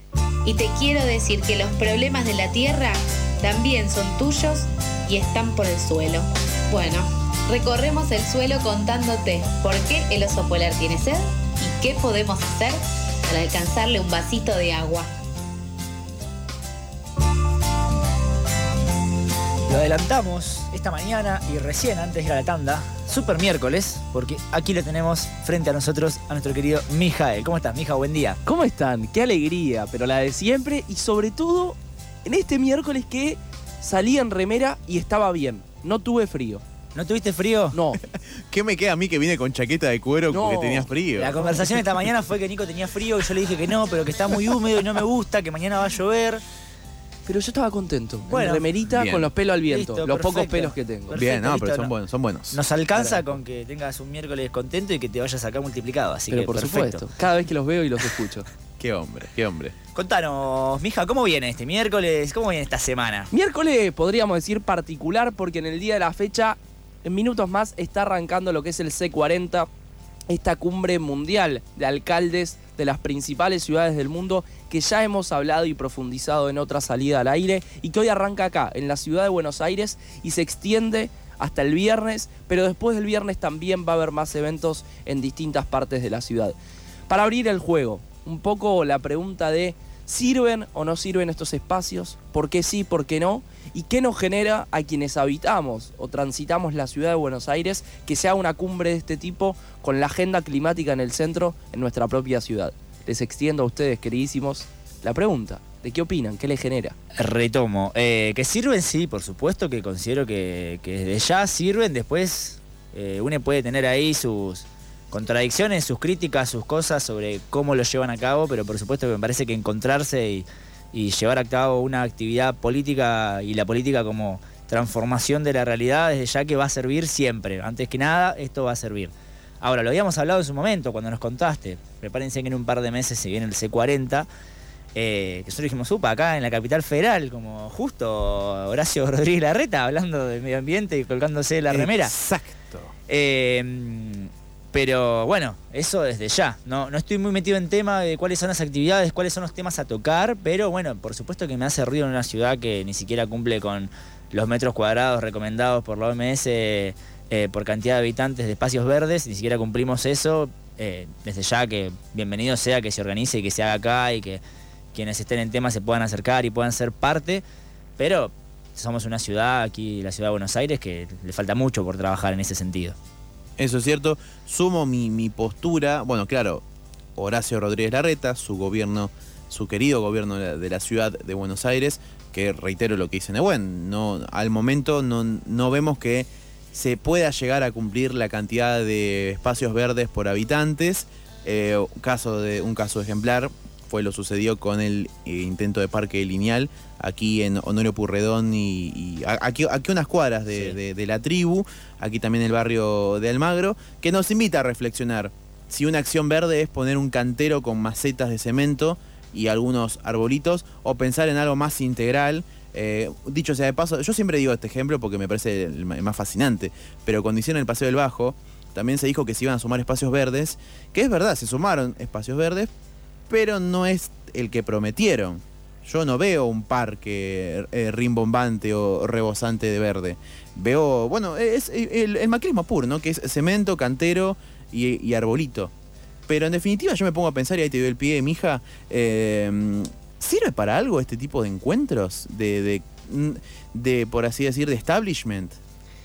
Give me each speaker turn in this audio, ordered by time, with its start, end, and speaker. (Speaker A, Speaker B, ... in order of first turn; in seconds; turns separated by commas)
Speaker A: 0.4-12.8, Speaker A: 13.3-15.1, Speaker B: 19.7-28.4, Speaker C: 28.4-36.6, Speaker B: 36.9-37.7, Speaker C: 37.7-38.0, Speaker D: 38.0-41.3, Speaker C: 40.3-40.9, Speaker B: 41.1-46.4, Speaker C: 47.2-51.2, Speaker B: 48.3-48.7, Speaker D: 48.9-49.3, Speaker B: 49.7-51.9, Speaker D: 51.1-52.6, Speaker B: 52.5-57.0, Speaker C: 52.9-53.4, Speaker C: 56.3-58.5, Speaker D: 58.8-59.7, Speaker B: 59.9-63.3, Speaker C: 63.3-69.7, Speaker C: 70.3-86.6, Speaker C: 87.1-107.0, Speaker B: 107.2-134.3, Speaker B: 134.9-142.1, Speaker D: 141.7-142.9, Speaker B: 143.1-164.4, Speaker B: 164.9-167.4, Speaker B: 168.0-172.9, Speaker D: 173.6-176.6, Speaker D: 177.2-222.7, Speaker D: 223.3-235.7, Speaker D: 236.3-245.6